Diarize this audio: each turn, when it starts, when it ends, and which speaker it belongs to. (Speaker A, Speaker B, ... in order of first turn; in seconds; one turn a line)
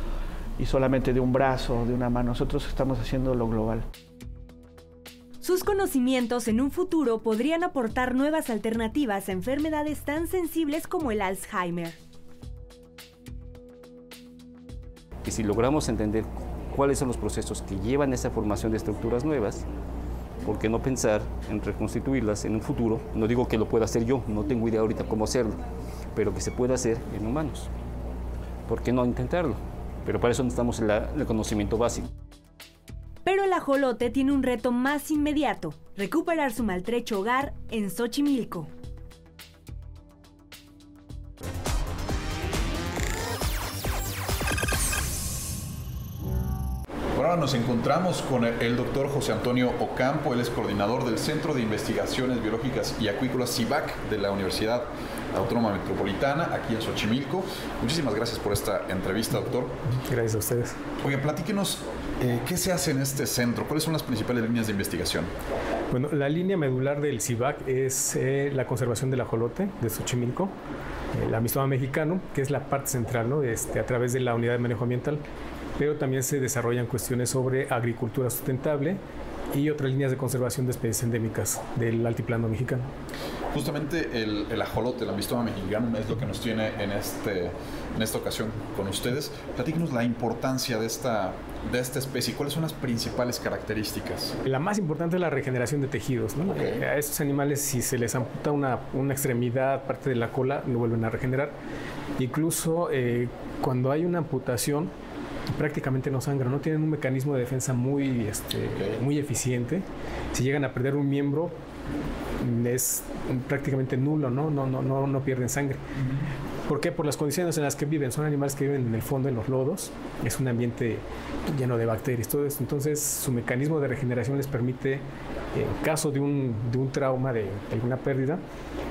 Speaker A: 0.6-3.9
Speaker B: 5.4-12.0
Speaker C: 15.2-19.7
Speaker C: 20.4-25.6
Speaker C: 26.1-27.7
Speaker C: 28.7-32.1
Speaker B: 33.2-38.7
Speaker D: 47.1-59.8
Speaker E: 59.9-60.8
Speaker D: 61.0-65.3
Speaker E: 65.9-70.5
Speaker E: 71.1-75.2
Speaker E: 75.8-79.0
Speaker E: 79.5-82.9
Speaker D: 83.5-94.4
Speaker E: 94.5-101.5
Speaker D: 96.5-96.8
Speaker E: 102.2-104.9
Speaker E: 105.5-111.6
Speaker E: 112.4-115.8
Speaker D: 116.0-116.3
Speaker E: 116.7-128.4